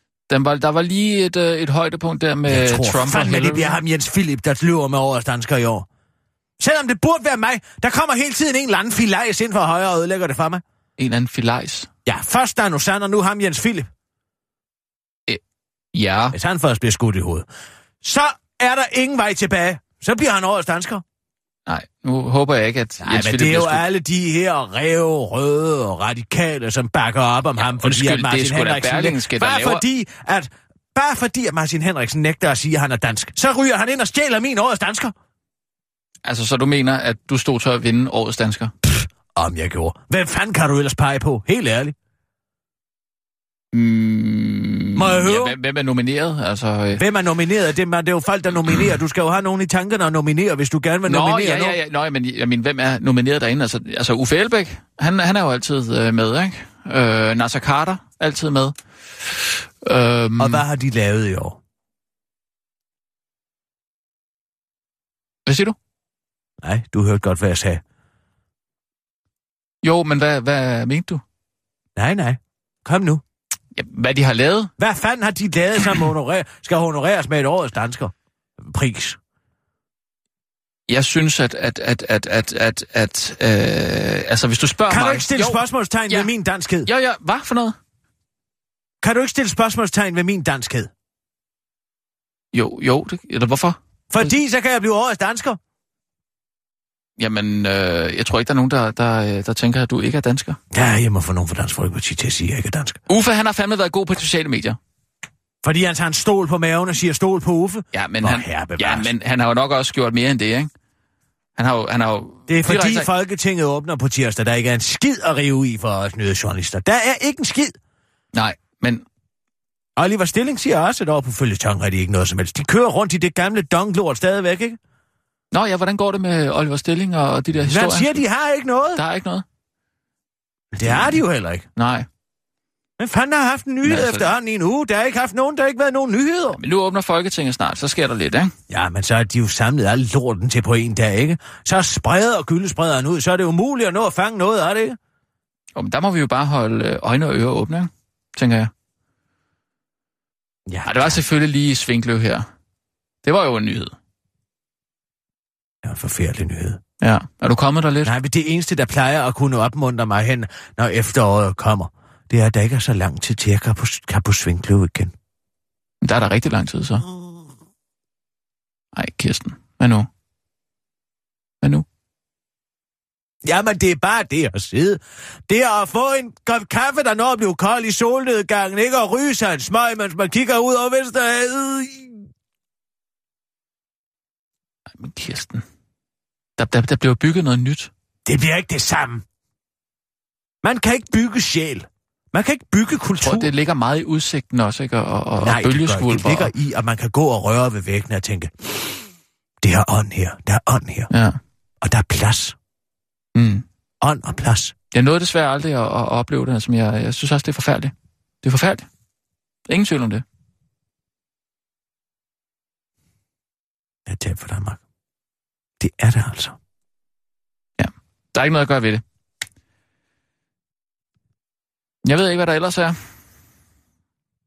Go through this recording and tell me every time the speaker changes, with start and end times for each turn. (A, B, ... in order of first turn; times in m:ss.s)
0:00.3-0:03.8 A
0:02.5-0:05.8 B
0:06.6-0:10.6 B
0:11.0-0:11.9 A
0:12.0-0:13.9 B
0:15.9-0:16.3 A
0:16.3-0:17.5 B
0:18.0-0:21.0 B
0:21.7-0:23.8 A
0:23.0-0:35.1 B
0:27.6-0:29.8 A
0:36.2-0:38.7 A
0:39.3-0:41.9 B
0:43.7-0:47.0 A
0:45.0-0:45.6 B
0:46.9-0:51.8 B
0:51.0-1:00.6 A
1:00.4-1:01.6 B
1:05.4-1:05.8 A
1:06.6-1:07.8 B
1:09.8-1:11.2 A
1:12.0-1:13.2 B
1:13.7-1:14.7 A
1:14.8-1:19.2 B
1:20.9-1:26.3 A
1:24.9-1:26.9 B
1:26.8-1:27.8 A
1:29.0-1:30.9 B
1:32.5-1:34.3 A
1:34.1-1:35.6 B
1:37.2-1:40.6 A
1:40.7-1:43.0 B
1:43.1-1:44.8 A
1:45.6-1:49.1 B
1:47.9-1:50.7 A
1:51.6-1:53.1 A
1:52.5-1:57.8 B
1:58.3-1:59.0 A
2:00.0-2:04.8 B
2:05.5-2:08.2 A
2:07.6-2:09.0 B
2:08.9-2:09.4 A
2:10.7-2:11.6 B
2:10.8-2:11.2 A
2:11.8-2:12.1 A
2:13.0-2:16.6 B
2:13.8-2:14.3 A
2:16.6-2:18.5 A
2:18.7-2:25.0 B
2:25.8-2:28.7 A
2:30.7-2:31.2 B
2:30.8-2:32.5 A
2:33.2-2:33.9 A
2:35.8-2:36.8 B
2:37.0-2:38.1 A
2:38.0-2:45.1 B
2:46.0-2:47.0 A
2:48.9-2:50.1 A
2:53.4-3:02.2 B
3:05.0-3:05.6 A
3:06.6-3:07.9 A
3:08.2-3:09.2 B
3:10.6-3:13.5 B
3:13.2-3:16.5 A
3:15.4-3:19.0 B
3:19.6-3:21.1 B
3:21.1-3:21.4 A
3:21.8-3:22.6 B
3:23.3-3:23.6 A
3:24.0-3:24.7 B
3:24.9-3:28.9 A
3:29.7-3:30.2 A
3:34.0-3:34.8 B
3:35.8-3:36.6 B
3:37.8-3:39.0 A
3:42.0-3:43.0 A